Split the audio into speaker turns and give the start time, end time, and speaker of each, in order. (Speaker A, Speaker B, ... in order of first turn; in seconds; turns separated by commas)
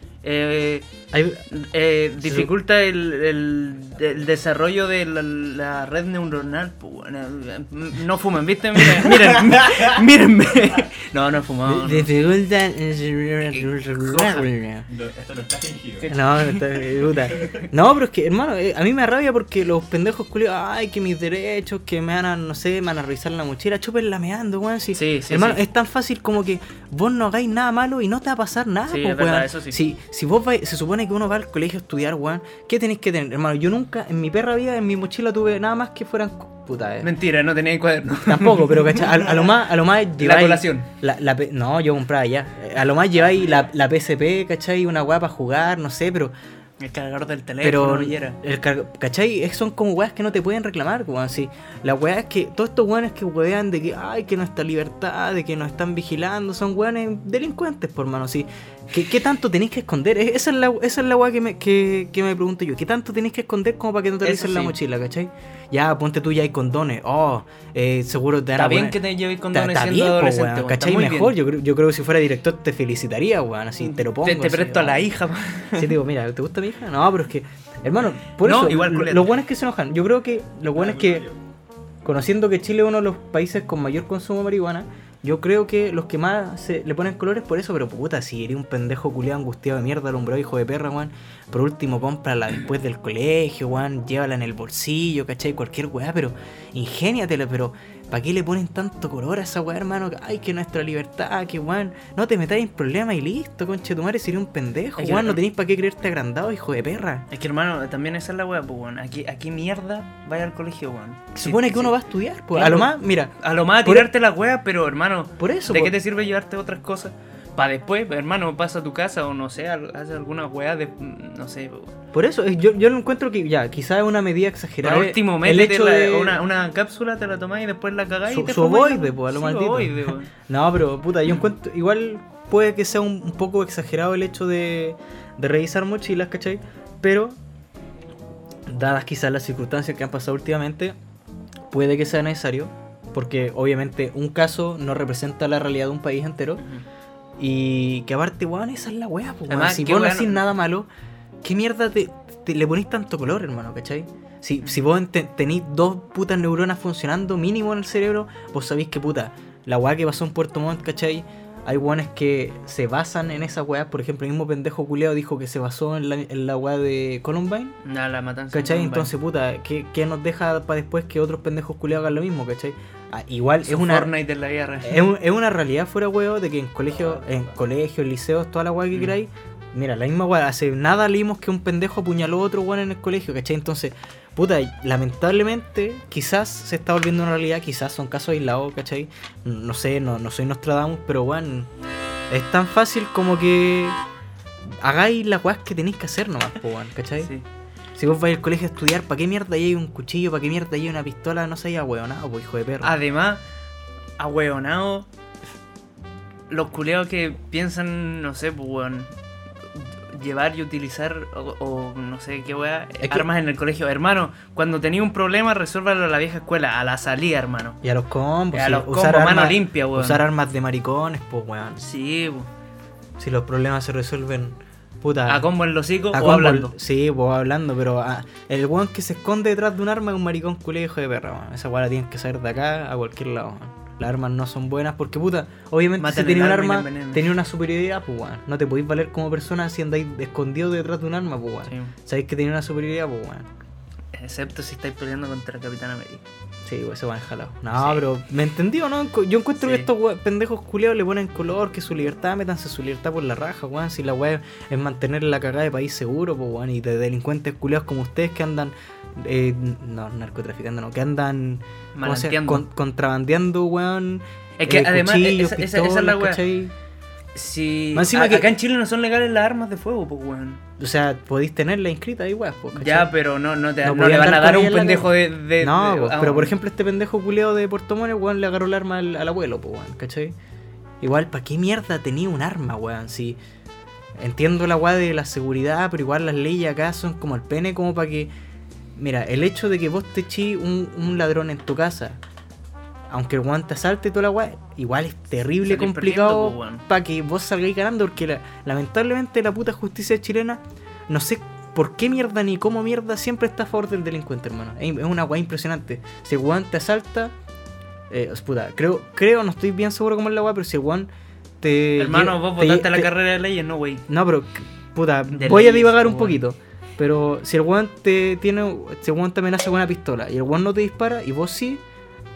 Speaker A: 0.2-0.9, Speaker B: 1.1-1.4, Speaker A: 1.5-12.1, Speaker B: 2.2-2.5, Speaker B: 8.8-9.4, Speaker C: 9.5-9.8, Speaker B: 11.7-14.9, Speaker A: 13.5-14.5, Speaker C: 14.9-16.1, Speaker A: 16.0-16.7, Speaker B: 16.1-37.1, Speaker C: 17.1-17.6, Speaker A: 24.9-25.6, Speaker A: 28.9-29.8, Speaker A: 37.0-39.5, Speaker B: 38.2-46.3, Speaker A: 40.2-40.9, Speaker A: 46.8-48.4, Speaker B: 47.6-69.0, Speaker A: 64.2-64.8, Speaker A: 68.5-71.3, Speaker B: 69.5-75.1, Speaker A: 73.8-75.9, Speaker B: 75.8-81.2, Speaker A: 78.4-79.3, Speaker C: 80.7-81.4, Speaker B: 82.0-107.3, Speaker A: 105.0-105.4, Speaker A: 107.3-111.9, Speaker B: 111.3-114.1, Speaker A: 112.5-122.0, Speaker B: 115.4-115.9, Speaker B: 122.1-126.4, Speaker A: 124.8-130.3, Speaker B: 128.3-137.4, Speaker B: 138.7-140.9, Speaker B: 141.7-146.6, Speaker B: 147.4-150.9, Speaker A: 149.5-150.4, Speaker B: 151.4-167.8, Speaker A: 167.8-169.1, Speaker B: 168.5-174.1, Speaker A: 173.6-175.1, Speaker B: 174.8-191.7, Speaker B: 192.3-194.0, Speaker B: 194.8-197.3, Speaker B: 197.9-202.9, Speaker A: 202.8-203.4, Speaker A: 204.2-205.1, Speaker A: 206.5-209.1, Speaker A: 209.7-217.8, Speaker B: 213.0-213.3, Speaker B: 217.8-221.8, Speaker A: 218.5-220.2, Speaker A: 221.8-222.5, Speaker B: 223.2-225.5, Speaker A: 225.3-226.7, Speaker B: 226.1-243.5, Speaker A: 236.0-237.3, Speaker A: 241.7-241.9, Speaker A: 244.1-246.2, Speaker B: 246.6-266.7, Speaker A: 247.8-248.0, Speaker A: 249.6-249.9, Speaker A: 261.9-262.6, Speaker A: 264.6-266.4, Speaker A: 267.3-270.6, Speaker B: 267.9-268.5, Speaker B: 270.8-273.1, Speaker A: 272.7-276.6, Speaker B: 273.8-280.3, Speaker B: 281.0-283.4, Speaker B: 284.1-288.3, Speaker B: 288.9-292.2, Speaker B: 293.1-307.3, Speaker A: 295.6-296.8, Speaker B: 308.1-313.1, Speaker A: 312.0-314.1, Speaker B: 314.1-321.8, Speaker A: 315.3-316.4